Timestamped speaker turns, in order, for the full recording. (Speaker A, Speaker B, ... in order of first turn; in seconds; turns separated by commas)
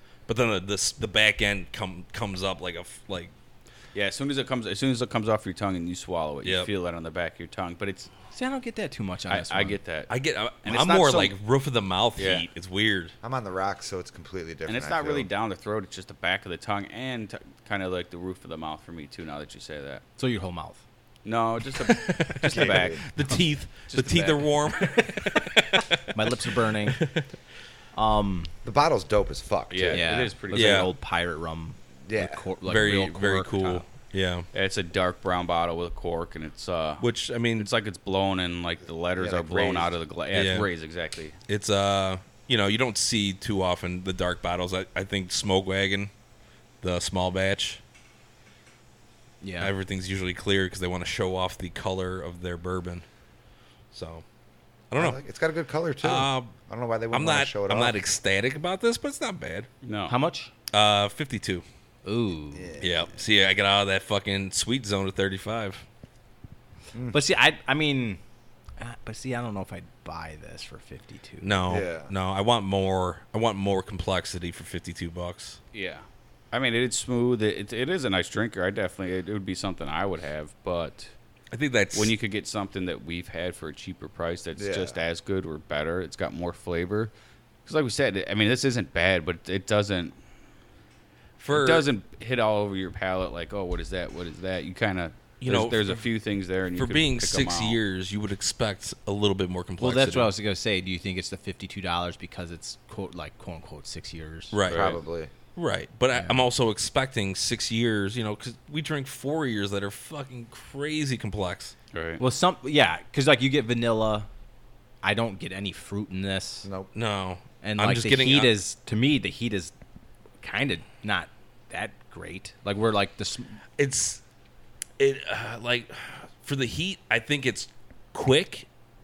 Speaker A: 0.3-3.3, Speaker B: 4.0-8.1, Speaker A: 6.4-6.7, Speaker C: 8.3-9.8, Speaker B: 9.3-10.1, Speaker A: 10.1-13.1, Speaker C: 10.7-11.3, Speaker B: 12.2-12.4, Speaker D: 13.2-15.3, Speaker B: 14.7-20.0, Speaker C: 20.2-20.8, Speaker B: 21.2-23.1, Speaker A: 21.9-27.2, Speaker D: 22.5-23.0, Speaker B: 23.9-24.5, Speaker C: 26.1-27.1, Speaker C: 27.9-28.5, Speaker D: 28.6-30.3, Speaker B: 29.7-30.9, Speaker C: 29.9-33.8, Speaker A: 30.5-30.9, Speaker D: 32.1-32.4, Speaker A: 32.6-34.5, Speaker B: 34.5-37.0, Speaker A: 37.0-37.7, Speaker B: 37.6-41.4, Speaker D: 39.2-40.0, Speaker A: 40.3-40.7, Speaker A: 41.5-46.1, Speaker A: 46.8-47.8, Speaker C: 49.4-49.7, Speaker A: 49.6-53.0, Speaker A: 53.9-54.2, Speaker A: 54.9-55.2, Speaker D: 55.0-58.0, Speaker A: 56.0-56.5, Speaker A: 57.1-59.7, Speaker B: 59.8-60.2, Speaker C: 60.1-60.5, Speaker A: 60.7-61.6, Speaker C: 62.0-62.8, Speaker D: 62.5-63.2, Speaker A: 62.8-65.8, Speaker C: 67.1-68.2, Speaker C: 68.8-71.6, Speaker A: 71.4-75.6, Speaker D: 71.7-72.1, Speaker B: 75.7-81.1, Speaker A: 81.5-82.1, Speaker B: 81.9-87.1, Speaker D: 84.6-85.0, Speaker B: 87.7-90.2, Speaker A: 91.4-91.9, Speaker B: 91.5-97.8, Speaker A: 95.4-96.1, Speaker A: 96.7-100.3, Speaker C: 99.8-104.6, Speaker A: 104.5-105.0, Speaker B: 104.6-105.0, Speaker D: 104.7-105.3, Speaker A: 105.5-111.8, Speaker C: 106.1-106.4, Speaker B: 111.9-112.2, Speaker C: 112.2-114.3, Speaker C: 115.0-116.7, Speaker D: 116.6-116.9, Speaker A: 116.9-118.5, Speaker C: 117.6-119.7, Speaker C: 120.4-123.6, Speaker A: 123.8-124.2, Speaker A: 125.0-128.7